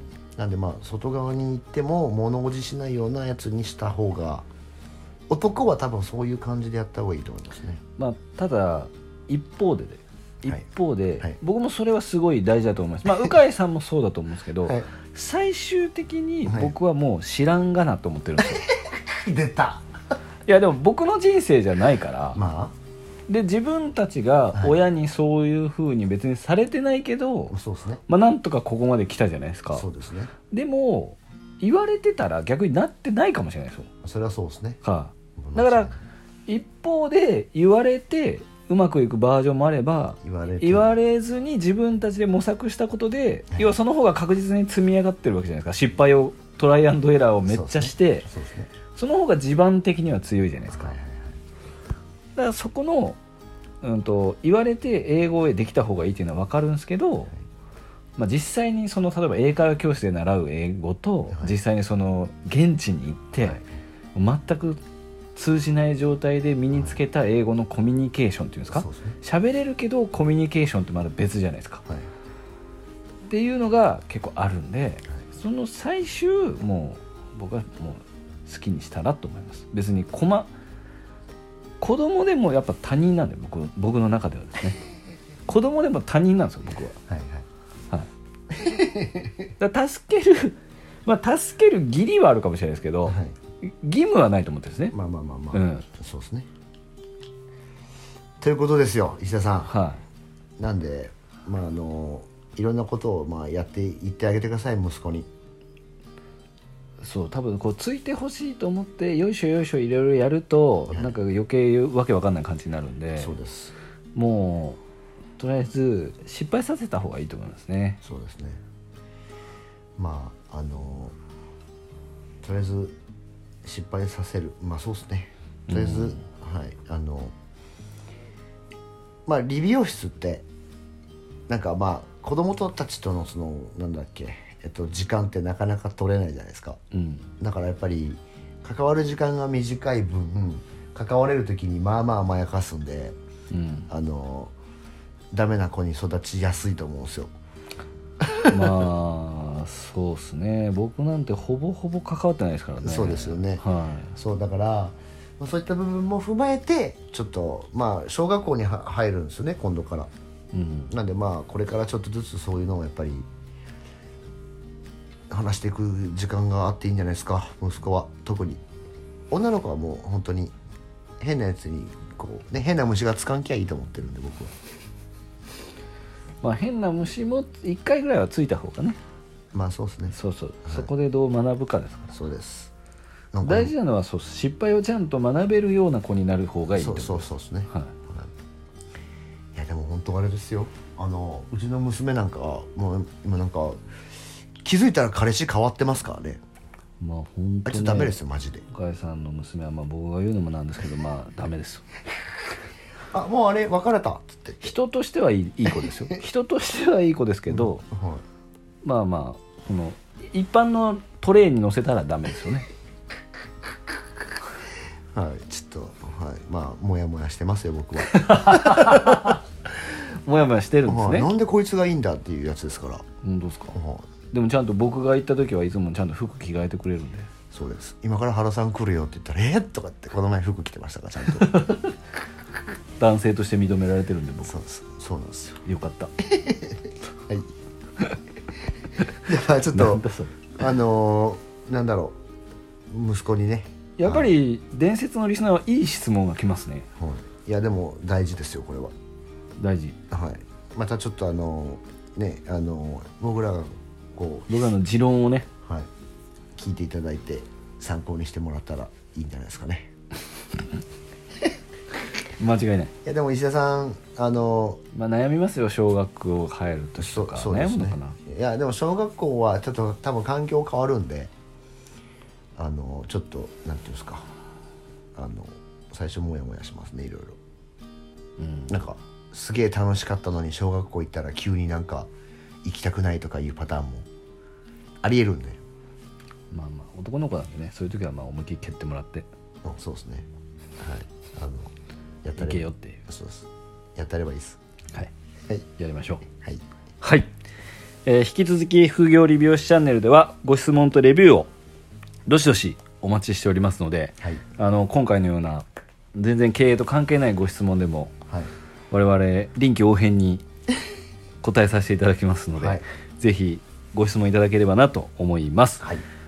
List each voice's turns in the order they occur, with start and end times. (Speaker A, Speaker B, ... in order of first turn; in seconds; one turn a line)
Speaker A: 0.3-4.5
Speaker A: 5.3-7.8
Speaker B: 8.0-18.6
Speaker A: 14.6-14.9
Speaker A: 16.4-16.7
Speaker A: 18.5-19.9
Speaker B: 20.4-22.4
Speaker A: 22.3-22.7
Speaker B: 23.3-27.6
Speaker A: 24.5-24.8
Speaker A: 27.5-28.0
Speaker B: 28.1-29.9
Speaker A: 29.7-30.3
Speaker B: 30.5-33.9
Speaker A: 34.0-34.8
Speaker B: 34.8-35.9
Speaker A: 35.4-36.0
Speaker B: 36.5-48.3
Speaker A: 40.2-41.0
Speaker A: 47.4-48.7
Speaker B: 48.9-51.0
Speaker A: 50.7-51.3
Speaker B: 52.4-53.2
Speaker B: 53.8-57.3
Speaker B: 58.2-63.6
Speaker B: 64.1-64.8
Speaker B: 65.3-71.8
Speaker A: 66.7-67.0
Speaker A: 68.7-69.2
Speaker B: 73.2-80.5
Speaker B: 81.8-84.8
Speaker B: 85.5-87.0
Speaker A: 87.1-87.5
Speaker A: 88.5-89.5
Speaker B: 89.6-94.9
Speaker A: 93.1-93.3
Speaker A: 94.9-96.5
Speaker B: 95.5-95.8
Speaker A: 98.4-99.7
Speaker B: 99.7-100.0
Speaker A: 100.6-105.3
Speaker B: 107.0-113.4
Speaker A: 113.2-113.7
Speaker B: 114.1-114.8
Speaker B: 115.4-118.0
Speaker A: 118.0-118.6
Speaker A: 120.0-121.1
Speaker A: 122.4-122.9
Speaker A: 123.6-127.3
Speaker B: 125.7-126.2
Speaker A: 129.3-130.4
Speaker A: 131.5-136.8
Speaker B: 136.9-137.3
Speaker A: 137.4-143.2
Speaker B: 143.5-143.9
Speaker A: 143.9-144.5
Speaker A: 145.3-147.3
Speaker B: 148.5-154.1
Speaker A: 152.8-160.1
Speaker B: 160.5-160.9
Speaker A: 160.9-163.3
Speaker A: 165.3-168.6
Speaker A: 169.3-170.5
Speaker A: 171.2-174.5
Speaker B: 176.4-179.0
Speaker A: 179.5-180.9
Speaker B: 180.1-182.1
Speaker A: 182.1-182.7
Speaker A: 183.3-183.7
Speaker B: 183.4-187.9
Speaker A: 186.7-188.3
Speaker A: 189.5-193.8
Speaker A: 194.6-196.4
Speaker B: 197.0-198.2
Speaker A: 197.6-198.7
Speaker B: 198.7-201.8
Speaker A: 203.1-204.7
Speaker B: 204.6-207.8
Speaker A: 207.5-208.2
Speaker B: 208.8-212.7
Speaker A: 215.1-219.3
Speaker B: 218.1-221.3
Speaker A: 220.8-223.0
Speaker B: 223.2-223.8
Speaker A: 223.7-224.1
Speaker B: 224.3-227.3
Speaker A: 227.5-231.5
Speaker B: 231.3-231.9
Speaker B: 233.0-234.5
Speaker A: 234.4-235.6
Speaker B: 235.6-236.1
Speaker A: 236.2-237.5
Speaker A: 239.2-242.2
Speaker B: 239.7-240.5
Speaker A: 242.9-244.3
Speaker B: 244.0-246.9
Speaker A: 247.0-248.9
Speaker B: 249.6-250.0
Speaker A: 250.1-254.5
Speaker B: 254.5-255.5
Speaker A: 256.5-259.9
Speaker B: 262.4-262.9
Speaker A: 263.0-264.8
Speaker B: 264.9-268.2
Speaker A: 267.0-271.3
Speaker A: 272.6-274.3
Speaker A: 275.1-277.4
Speaker B: 278.4-278.7
Speaker A: 278.7-282.1
Speaker A: 282.6-284.1
Speaker A: 285.0-285.6
Speaker B: 286.5-289.3
Speaker A: 289.6-290.3
Speaker A: 290.8-291.7
Speaker A: 292.2-294.6
Speaker B: 292.4-293.0
Speaker B: 295.8-296.2
Speaker B: 297.0-297.3
Speaker B: 298.1-301.5
Speaker B: 302.3-308.1
Speaker B: 308.9-310.4
Speaker B: 311.4-315.9
Speaker A: 312.6-312.8